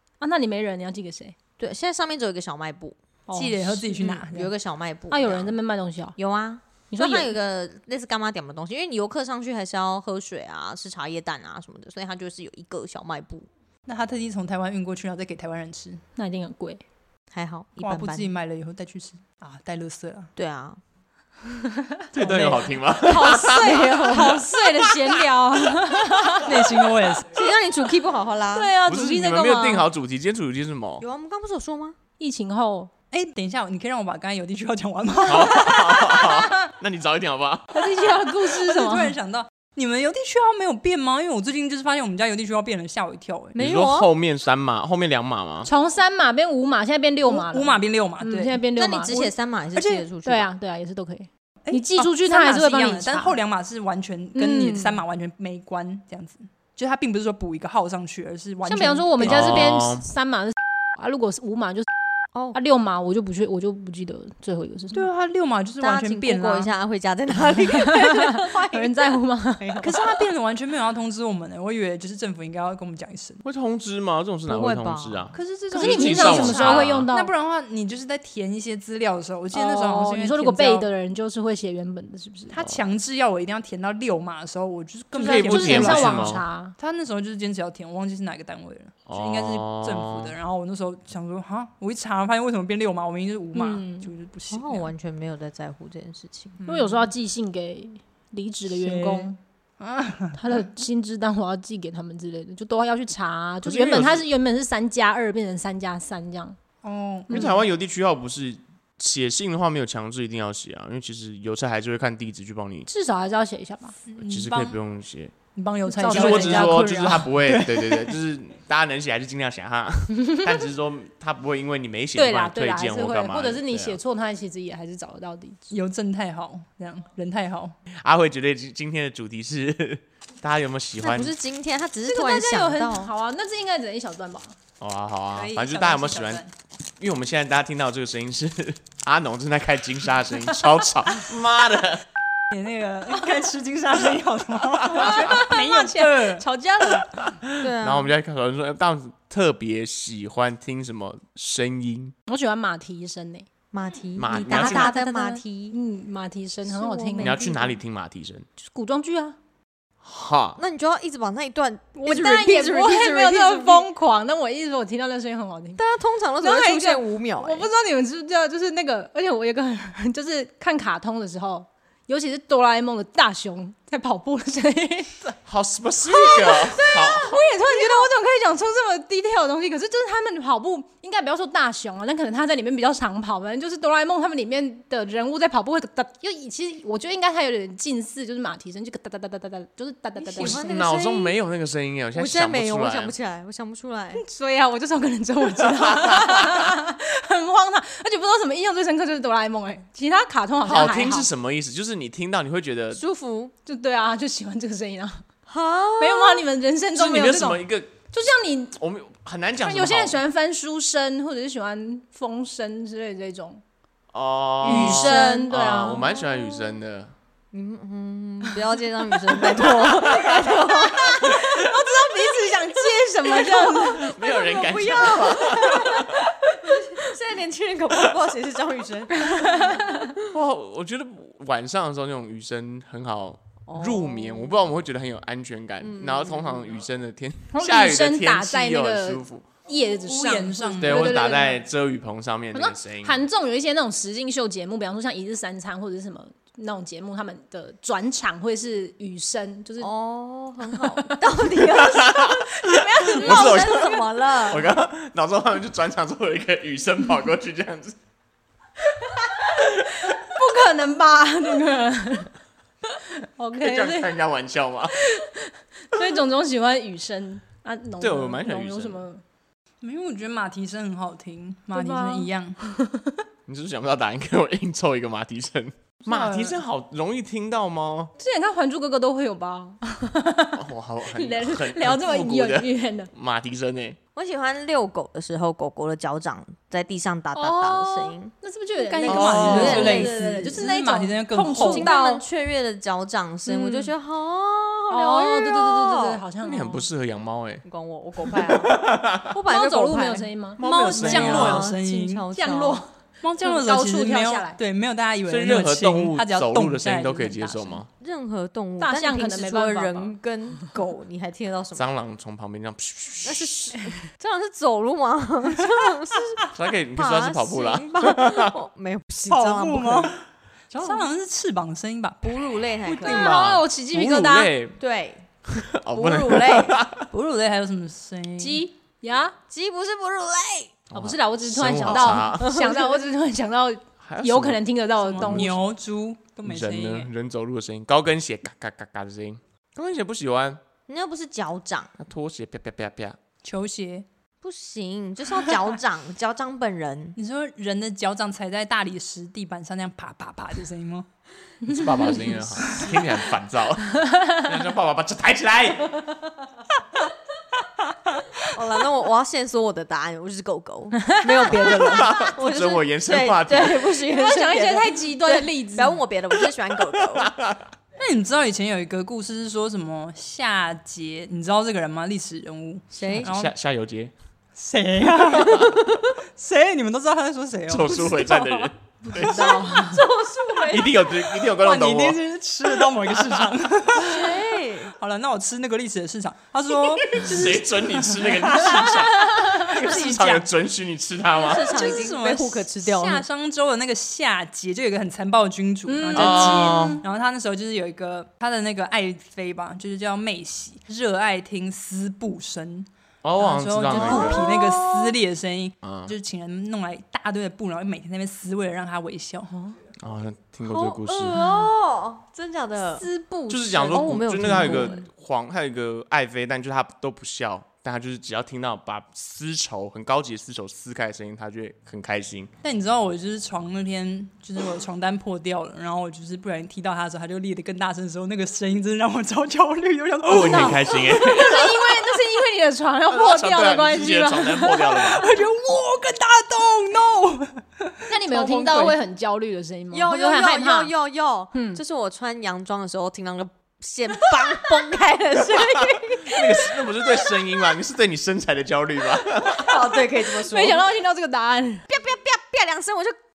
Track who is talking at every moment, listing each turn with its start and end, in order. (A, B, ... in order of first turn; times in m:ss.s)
0:00.2-0:01.4 A
0:01.6-0:03.0 B
0:03.3-0:04.0 A
0:03.3-0:04.5 C
0:03.9-0:05.5 B
0:05.1-0:06.2 A
0:06.2-0:13.5 B
0:06.9-0:07.3 A
0:13.9-0:16.0 C
0:16.2-0:16.8 A
0:17.3-0:18.3 B
0:17.8-0:20.3 C
0:20.4-0:20.8 B
0:22.1-0:24.0 D
0:22.1-0:22.7 C
0:23.0-0:26.6 A
0:23.4-0:24.5 B
0:26.4-0:27.3 C
0:27.3-0:28.7 B
0:28.5-0:29.9 A
0:28.9-0:31.0 D
0:31.0-0:32.0 B
0:32.2-0:32.9 A
0:33.1-0:36.5 C
0:35.2-0:37.8 D
0:37.7-0:39.1 A
0:38.0-0:43.6 C
0:43.5-0:44.1 B
0:43.6-0:45.7 D
0:45.6-0:49.3 A
0:47.2-0:49.2 C
0:48.8-0:50.5 B
0:49.8-0:50.0 C
0:50.2-0:53.4 A
0:51.6-0:59.8 C
0:54.4-0:55.0 A
0:58.6-1:01.9 A
0:59.2-1:00.0 D
1:02.5-1:05.1 A
1:04.9-1:06.7 C
1:05.8-1:10.1 B
1:07.8-1:09.9 A
1:09.8-1:13.4 C
1:13.4-1:17.1 D
1:14.5-1:15.4 B
1:15.3-1:20.9 C
1:15.7-1:17.3 A
1:19.5-1:22.6 A
1:22.5-1:34.9 C
1:25.1-1:26.4 D
1:25.2-1:26.8 A
1:29.1-1:30.4 D
1:33.5-1:34.1 A
1:34.5-1:36.6 B
1:36.6-1:37.1 C
1:36.6-1:39.4 A
1:38.7-1:40.7 C
1:40.4-1:46.6 A
1:43.6-1:44.2 D
1:46.8-1:47.5 C
1:47.3-1:47.6 A
1:47.3-1:52.9 D
1:52.9-1:54.0 A
1:54.1-1:54.8 C
1:54.2-1:55.3 D
1:55.5-1:58.1 C
1:55.8-1:57.3 A
1:56.0-2:04.0 D
2:00.2-2:00.6 A
2:02.2-2:05.7 A
2:05.7-2:07.8 C
2:08.0-2:11.3 D
2:11.0-2:13.1 B
2:12.0-2:14.6 A
2:14.8-2:16.4 D
2:15.3-2:16.5 C
2:17.0-2:22.0 D
2:22.5-2:26.4 C
2:25.0-2:27.1 A
2:25.0-2:25.2 D
2:27.4-2:32.1 D
2:27.6-2:28.1 B
2:32.3-2:33.5 A
2:33.7-2:35.8 B
2:34.2-2:34.9 D
2:34.5-2:37.4 A
2:36.7-2:37.8 B
2:37.2-2:38.5 D
2:38.6-2:39.4 A
2:40.0-2:40.6 D
2:40.6-2:43.9 B
2:42.0-2:45.8 A
2:45.8-2:47.7 B
2:46.4-2:55.2 A
2:55.4-2:57.5 D
2:56.0-3:10.7 A
2:57.8-2:58.0 B
3:10.2-3:11.4 B
3:10.4-3:13.1 D
3:12.1-3:14.2 B
3:14.2-3:21.3 A
3:15.7-3:16.5 D
3:20.6-3:23.0 D
3:22.9-3:23.5 B
3:23.7-3:25.2 A
3:25.5-3:26.5 B
3:26.0-3:28.8 A
3:27.0-3:27.9 D
3:28.8-3:30.2 D
3:29.6-3:33.6 A
3:34.1-3:37.1 D
3:34.6-3:36.1 A
3:34.6-3:36.8 B
3:37.5-3:41.5 B
3:39.6-3:40.8 D
3:41.0-3:44.1 A
3:43.5-3:50.2 B
3:43.8-3:46.3 D
3:49.2-3:50.1 A
3:50.3-3:59.5 D
3:53.7-3:54.6 B
3:55.8-3:56.8 B
3:57.5-4:01.6 A
4:00.0-4:01.2 C
4:00.8-4:03.2 D
4:02.5-4:09.9 A
4:09.8-4:14.7 B
4:10.7-4:11.4 A
4:11.7-4:18.0 D
4:12.6-4:14.0 A
4:19.1-4:22.3 A
4:23.0-4:24.1 A
4:23.6-4:25.0 D
4:24.9-4:29.2 A
4:28.0-4:29.0 D
4:29.8-4:32.6 C
4:31.7-4:33.2 A
4:33.5-4:38.1 D
4:36.0-4:36.6 C
4:38.2-4:40.6 A
4:40.5-4:44.0 D
4:41.1-4:43.1 A
4:44.2-4:48.3 B
4:47.3-4:52.2 A
4:48.8-4:51.9 C
4:49.0-4:50.7 B
4:49.1-4:50.0 D
4:51.5-4:56.2 B
4:53.5-4:53.9 A
4:54.9-4:56.8 A
4:56.4-4:57.6 D
4:57.6-5:02.8 B
4:58.2-4:59.3 D
4:59.4-5:01.6 A
5:00.6-5:02.2 C
5:00.6-5:01.7 D
5:02.3-5:04.6 A
5:03.2-5:07.8 C
5:05.3-5:07.9 D
5:07.8-5:11.9 B
5:08.8-5:10.2 A
5:11.8-5:13.7 D
5:13.2-5:20.2 B
5:16.5-5:18.5 D
5:19.3-5:22.4 C
5:22.2-5:23.4 B
5:22.9-5:24.5 A
5:23.0-5:24.8 D
5:24.8-5:25.3 B
5:25.5-5:27.1 D
5:25.9-5:26.8 B
5:27.1-5:28.7 C
5:28.4-5:29.4 A
5:29.5-5:30.8 B
5:30.9-5:32.6 D
5:30.9-5:35.6 A
5:31.9-5:33.0 B
5:34.0-5:34.6 D
5:35.0-5:37.1 C
5:35.2-5:35.6 D
5:36.4-5:40.6 D
5:40.9-5:41.9 B
5:42.0-5:43.2 D
5:43.4-5:44.0 C
5:44.4-5:47.2 B
5:47.2-5:51.1 C
5:51.7-5:56.0 D
5:52.0-5:53.0 C
5:54.0-5:54.4 A
5:58.4-6:07.3 B
6:01.0-6:02.0 A
6:01.6-6:03.9 D
6:04.1-6:06.0 A
6:07.1-6:07.6 D
6:08.0-6:13.5 C
6:12.9-6:13.3 B
6:13.2-6:14.1 D
6:14.6-6:18.3 C
6:15.3-6:15.7 D
6:17.7-6:19.4 D
6:19.0-6:20.1 A
6:19.2-6:21.1 B
6:20.7-6:23.5 D
6:21.5-6:24.4 C
6:23.9-6:25.0 B
6:25.0-6:30.5 C
6:27.1-6:31.8 D
6:31.4-6:33.2 B
6:31.5-6:42.9 C
6:35.9-6:37.0 A
6:36.1-6:37.0 D
6:43.2-6:44.5 D
6:43.4-6:49.5 C
6:43.9-6:45.2 B
6:45.8-6:46.1 D
6:50.0-6:51.4 D
6:50.6-6:53.1 B
6:53.0-6:54.0 A
6:53.5-7:02.5 D
6:53.7-6:55.0 B
7:02.6-7:11.1 C
7:10.2-7:12.0 D
7:10.3-7:15.2 A
7:13.1-7:15.3 D
7:15.1-7:18.9 C
7:18.1-7:20.9 A
7:18.3-7:19.0 B
7:19.9-7:27.3 B
7:21.5-7:21.8 A
7:25.5-7:29.8 D
7:29.4-7:30.8 B
7:30.3-7:31.9 A
7:31.9-7:33.2 B